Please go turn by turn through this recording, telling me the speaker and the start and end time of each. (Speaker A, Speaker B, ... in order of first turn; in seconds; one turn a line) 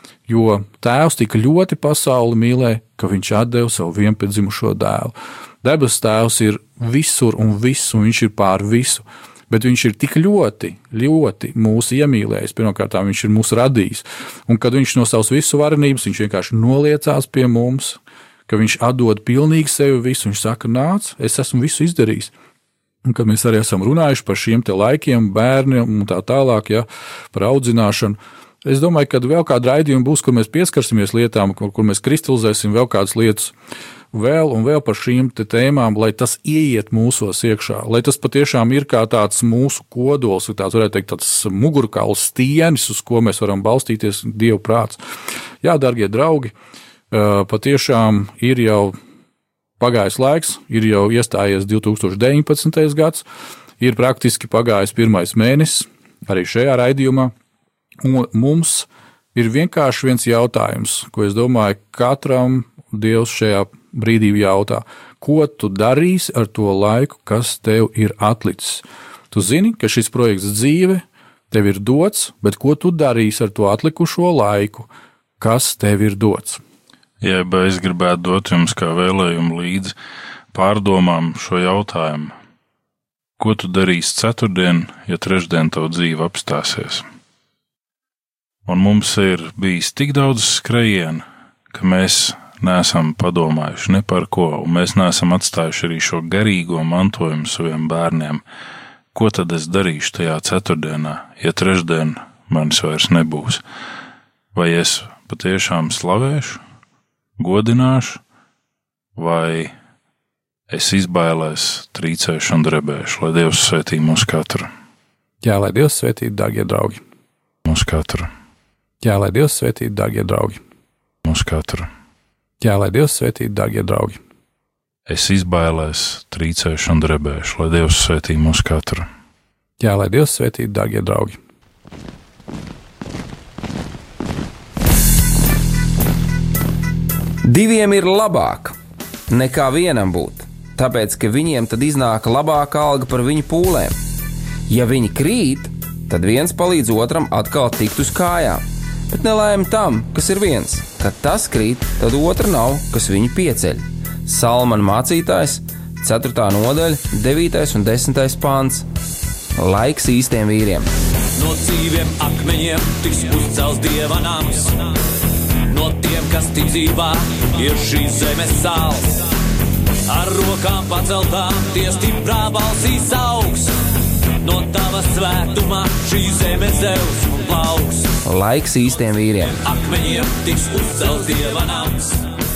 Speaker A: 0.3-22.3
Speaker A: 23.1-33.5
Speaker A: 34.1-45.0
Speaker A: 45.6-46.5
Speaker A: 47.1-48.9
Speaker A: 49.8-53.2
Speaker A: 53.8-57.3
Speaker A: 58.0-74.9
Speaker A: 75.4-76.6
Speaker B: 77.2-79.9
Speaker B: 80.5-82.3
Speaker B: 83.4-87.0
Speaker B: 88.7-98.4
Speaker B: 99.1-103.6
Speaker B: 104.5-106.6
Speaker B: 107.4-108.2
Speaker B: 109.2-109.7
Speaker B: 110.7-114.7
Speaker A: 115.4-117.0
Speaker B: 117.6-118.3
Speaker A: 119.0-120.6
Speaker B: 121.2-121.9
Speaker A: 122.6-124.2
Speaker B: 125.1-129.1
Speaker A: 129.8-131.4
Speaker C: 137.4-138.8
Speaker C: 139.3-143.9
Speaker C: 144.7-158.9
Speaker C: 159.6-160.9
Speaker D: 161.3-164.8
Speaker D: 165.7-169.2
Speaker D: 170.1-173.8
Speaker D: 174.4-178.2
Speaker C: 178.2-179.6
Speaker D: 179.5-182.3